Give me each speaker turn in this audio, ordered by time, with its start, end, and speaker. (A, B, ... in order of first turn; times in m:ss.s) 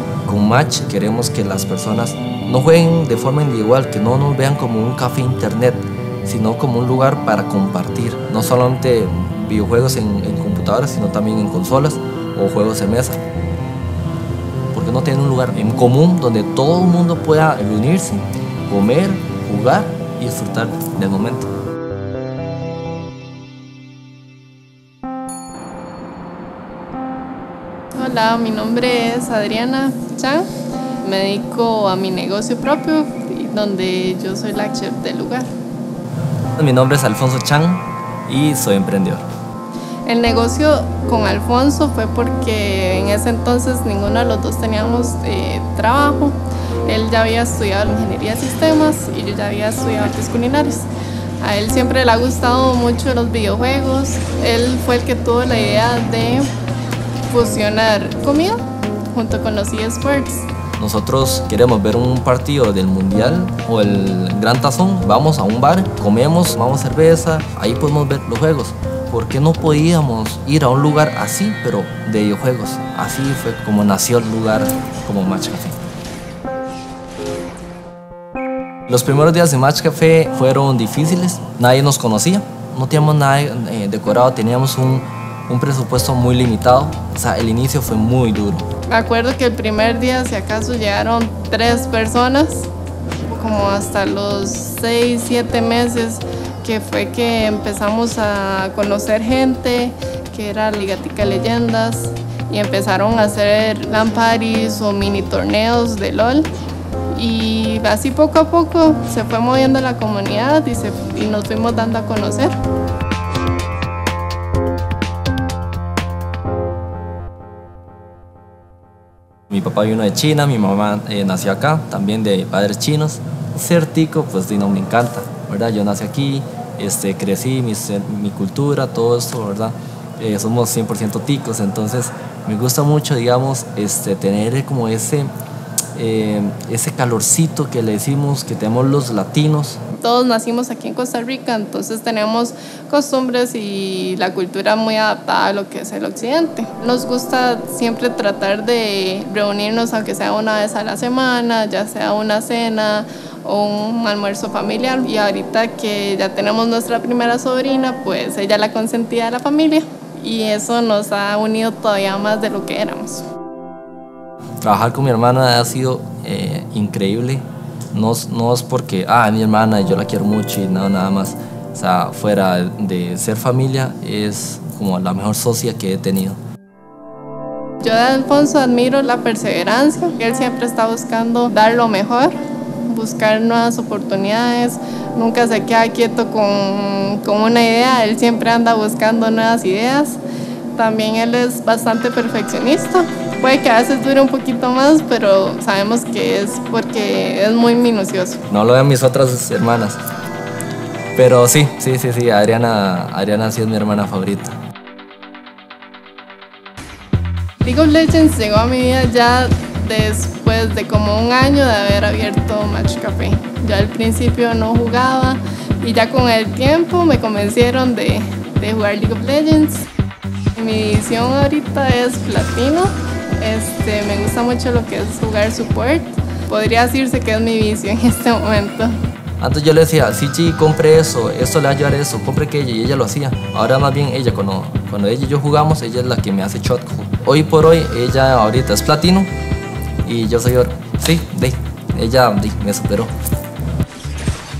0:00.2-0:13.2 A
0:14.7-0:21.5 A
0:28.0-0:30.5 B
0:31.0-0:35.5 B
0:36.6-0:39.2 A
0:40.0-0:50.9 B
0:51.4-0:56.5 B
0:57.3-0:58.6 B
0:59.1-1:00.5 B
1:00.8-1:15.8 A
1:18.9-1:28.7 A
1:28.9-1:32.7 B
1:33.3-1:46.5 B
1:47.1-1:52.6 B
1:59.5-2:15.3 A
2:16.0-2:19.8 A
2:20.0-2:43.2 B
2:44.6-2:56.4 A
2:57.8-3:10.2 B
3:10.8-3:18.4 B
3:18.5-3:20.0 A
3:21.2-3:24.5 A
3:27.6-3:39.9 B
3:40.5-3:48.9 B
3:49.4-3:59.3 A
4:00.0-4:03.1 A